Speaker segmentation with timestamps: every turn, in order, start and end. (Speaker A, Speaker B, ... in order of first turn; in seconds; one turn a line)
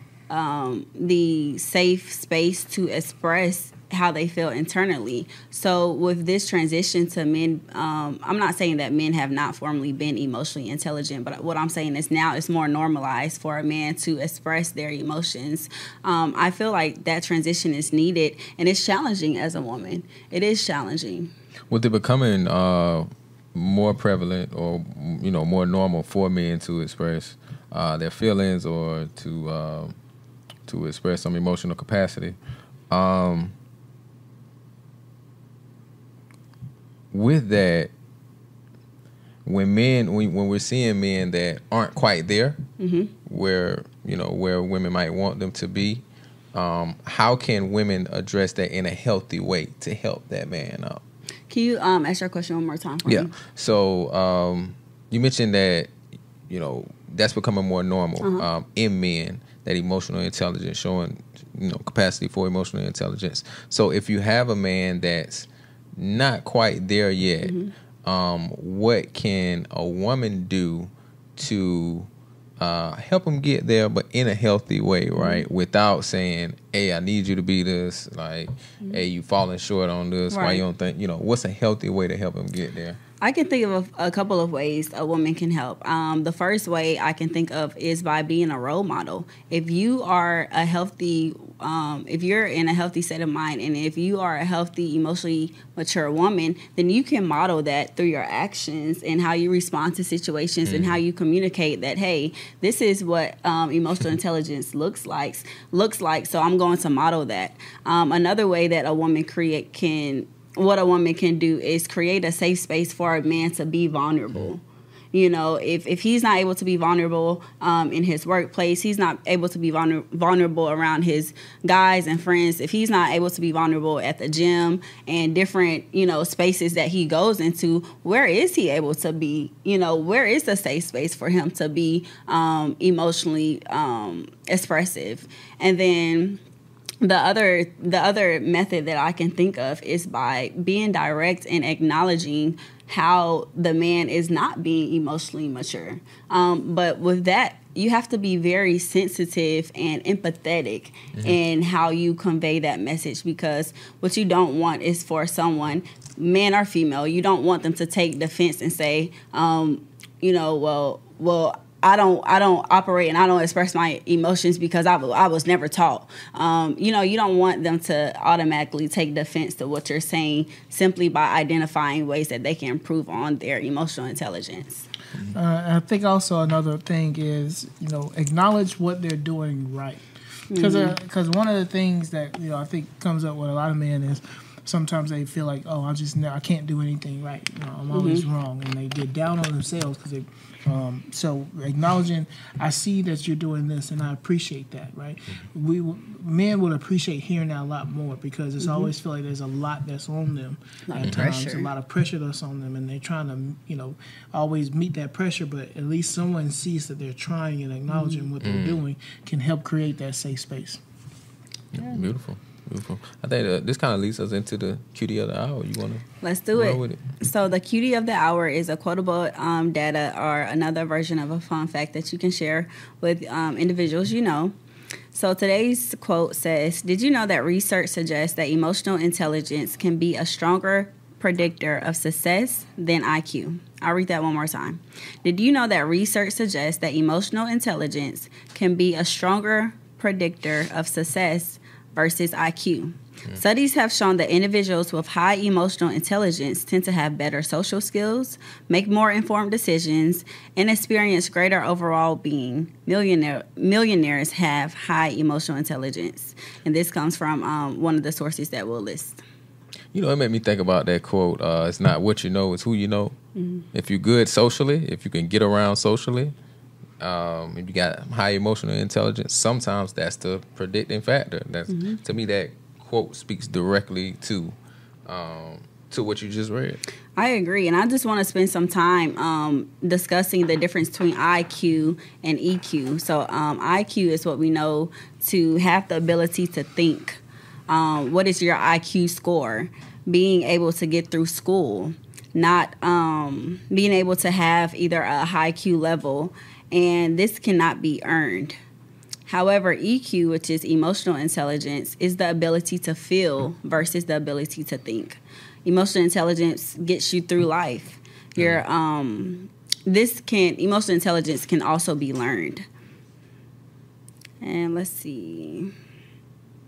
Speaker A: 0.3-21.3
Speaker B: 21.7-29.9
Speaker B: 30.7-32.4
Speaker B: 32.9-33.5
Speaker B: 37.1-37.9
Speaker B: 39.5-42.6
Speaker A: 42.8-43.1
Speaker B: 43.3-51.0
Speaker A: 51.5-53.3
Speaker B: 53.1-55.9
Speaker B: 56.5-83.0
Speaker A: 58.2-58.5
Speaker A: 67.4-67.7
Speaker A: 75.2-75.5
Speaker A: 80.3-80.6
Speaker A: 83.2-114.6
Speaker B: 100.7-101.0
Speaker A: 115.1-136.4
Speaker A: 137.0-174.9
Speaker C: 175.3-210.8
Speaker A: 180.5-181.0
Speaker A: 187.9-188.2
Speaker A: 198.6-198.9
Speaker A: 200.9-201.7
Speaker B: 201.0-201.3
Speaker A: 207.9-208.3
Speaker B: 208.4-208.8
Speaker B: 211.7-217.0
Speaker A: 216.2-224.5
Speaker A: 225.1-259.2
Speaker B: 259.9-263.1
Speaker A: 263.4-263.7
Speaker B: 263.7-266.4
Speaker B: 267.0-274.6
Speaker A: 271.7-272.0
Speaker B: 275.1-276.8
Speaker A: 277.2-298.6
Speaker A: 299.3-312.6
Speaker B: 308.4-308.6
Speaker A: 314.4-315.7